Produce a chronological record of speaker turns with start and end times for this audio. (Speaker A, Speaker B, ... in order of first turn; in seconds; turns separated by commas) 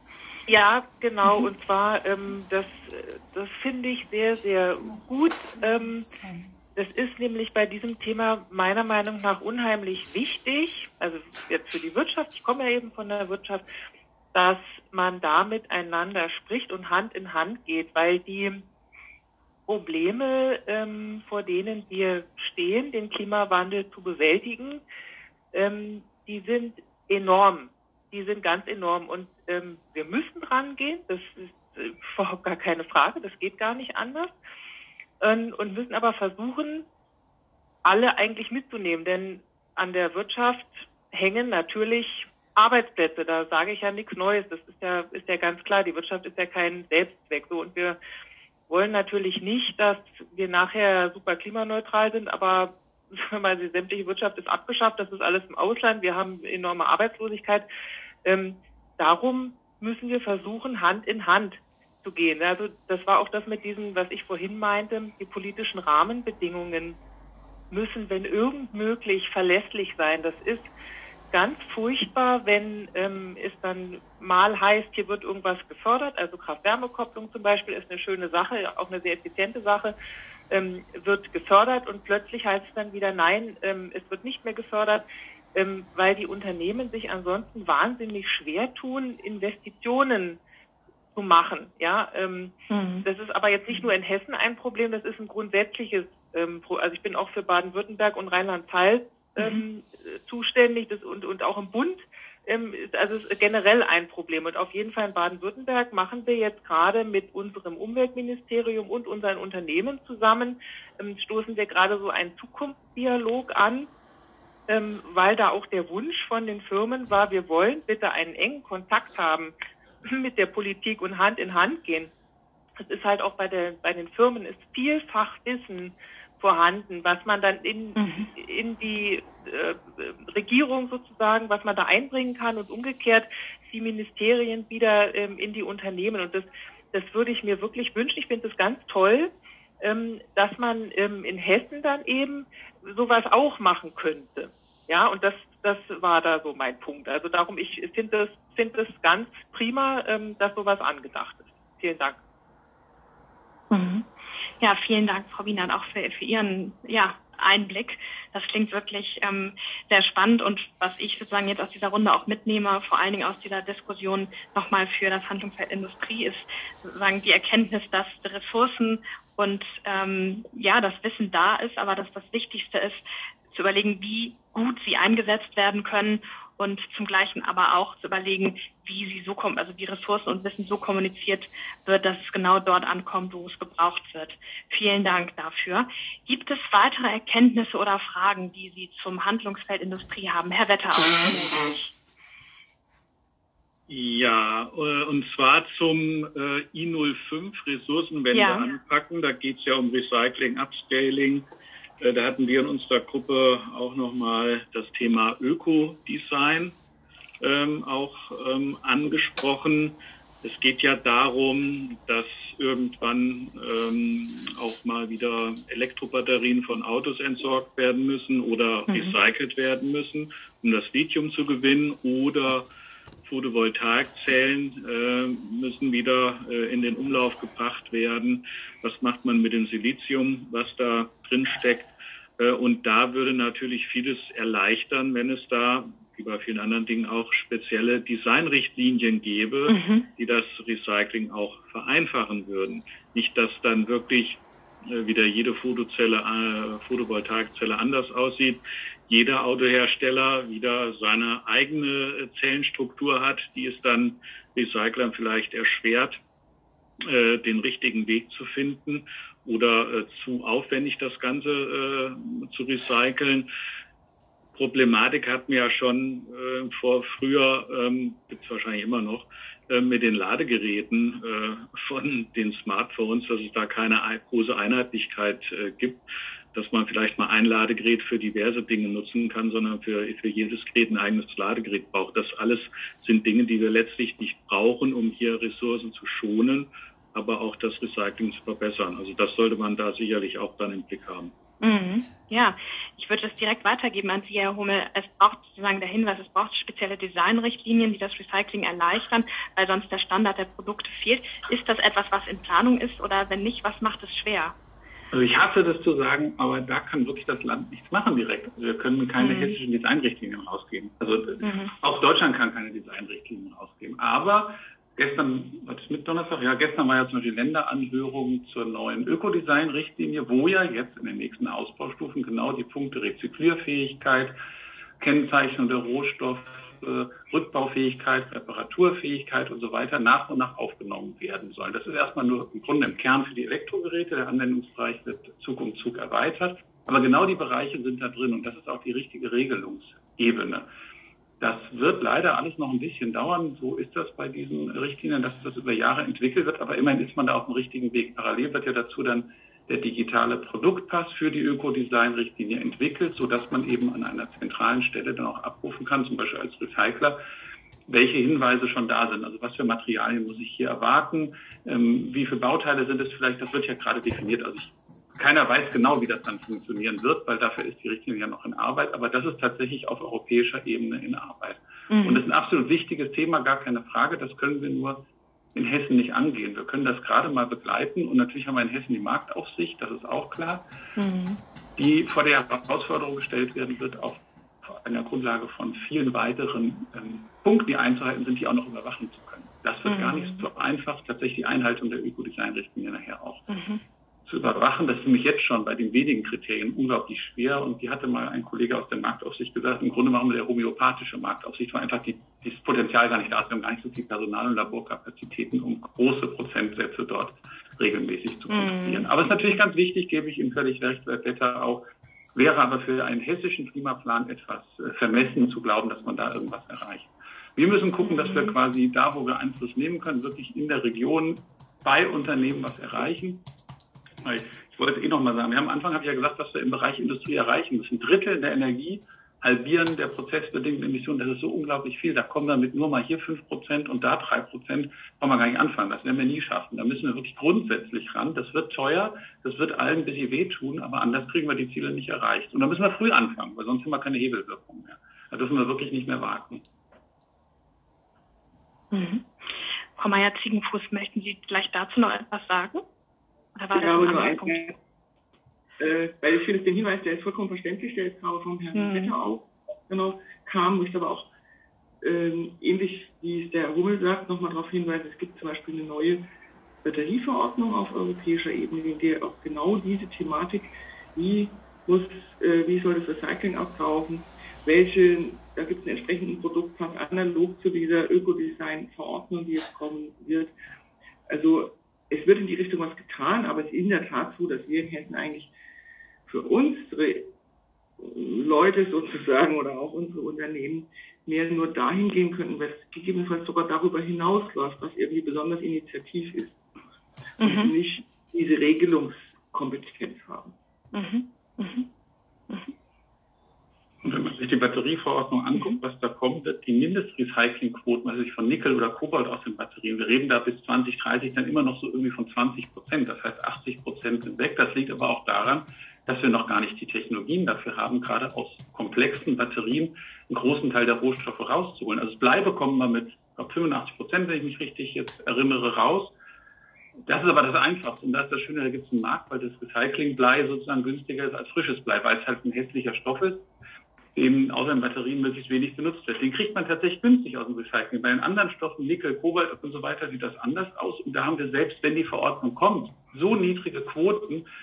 Speaker A: 0.5-6.1, Speaker A: 6.7-13.6, Speaker A: 14.3-18.6, Speaker A: 19.7-24.8, Speaker A: 25.5-34.3, Speaker A: 35.2-36.8, Speaker A: 37.8-48.0, Speaker A: 48.7-57.6, Speaker A: 58.2-67.0, Speaker A: 67.7-70.7, Speaker A: 71.3-79.9, Speaker A: 80.5-90.4, Speaker A: 91.1-113.9, Speaker B: 92.7-93.0, Speaker B: 99.4-99.6, Speaker A: 114.7-119.5, Speaker A: 120.0-122.1, Speaker A: 122.8-152.2, Speaker B: 128.0-128.3, Speaker B: 153.7-154.1, Speaker B: 154.6-191.9, Speaker C: 193.9-201.4, Speaker B: 198.3-198.7, Speaker C: 202.0-206.8, Speaker C: 207.4-222.7, Speaker B: 218.9-219.2, Speaker C: 223.2-256.2, Speaker B: 239.7-240.1, Speaker C: 257.0-263.5, Speaker C: 264.5-291.3, Speaker B: 291.6-304.5, Speaker D: 305.1-324.4, Speaker B: 309.2-309.5, Speaker B: 311.4-311.7, Speaker D: 325.0-340.7, Speaker D: 341.4-357.2, Speaker D: 357.9-375.0, Speaker B: 371.9-372.2, Speaker D: 375.5-380.6, Speaker B: 381.0-381.4, Speaker D: 381.8-393.5, Speaker B: 389.9-390.4, Speaker B: 393.5-393.8, Speaker D: 394.2-411.8, Speaker B: 408.5-409.1, Speaker D: 412.3-423.4, Speaker B: 418.0-418.5, Speaker D: 424.2-446.6, Speaker B: 448.9-449.3, Speaker B: 449.9-452.8, Speaker B: 453.6-454.7, Speaker E: 453.7-454.8, Speaker E: 455.8-461.3, Speaker B: 458.7-459.1, Speaker E: 462.0-466.2, Speaker E: 466.8-480.5, Speaker E: 481.3-485.5, Speaker E: 486.3-487.3, Speaker E: 488.0-496.6, Speaker E: 497.4-500.5, Speaker B: 497.4-497.7, Speaker B: 500.9-501.9, Speaker D: 504.0-526.1, Speaker D: 527.0-533.5, Speaker D: 534.1-544.4